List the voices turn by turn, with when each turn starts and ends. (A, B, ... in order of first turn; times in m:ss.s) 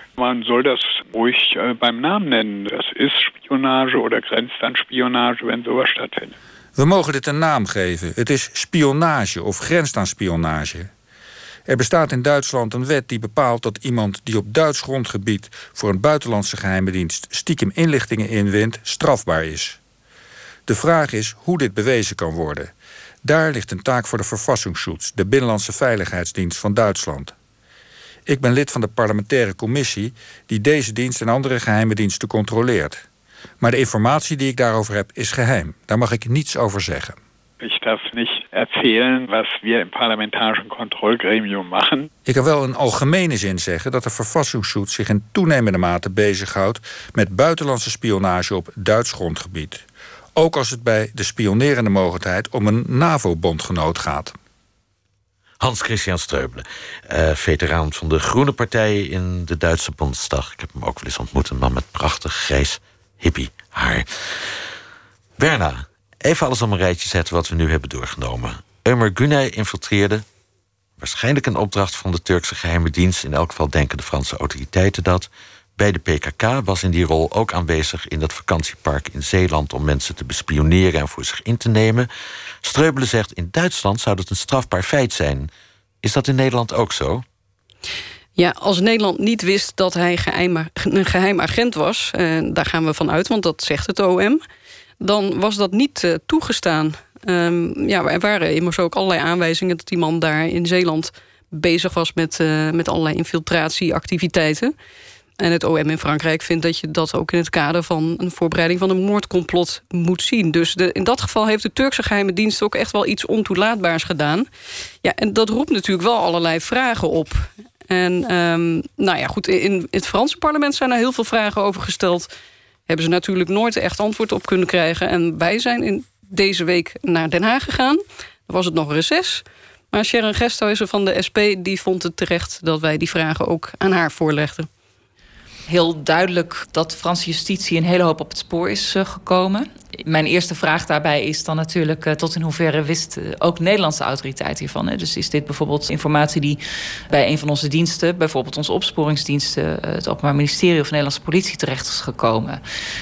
0:00.2-0:06.4 A
0:06.8-0:10.9 B
0:11.7-0:19.8 B
0:20.7-0:22.7 B
0:23.2-0:27.3 B
0:28.3-0:33.0 B
0:33.6-0:37.2 B
0:37.6-0:42.1 A
0:42.3-0:49.8 B
0:50.4-0:54.4 B
0:55.6-1:04.5 C
1:05.4-1:10.2 C
1:11.0-1:22.1 C
1:22.6-1:25.5 C
1:26.0-1:27.2 C
1:28.4-1:34.4 D
1:35.0-1:44.7 D
1:45.4-1:54.5 D
1:55.0-2:02.3 D
2:02.9-2:14.7 D
2:15.7-2:32.6 E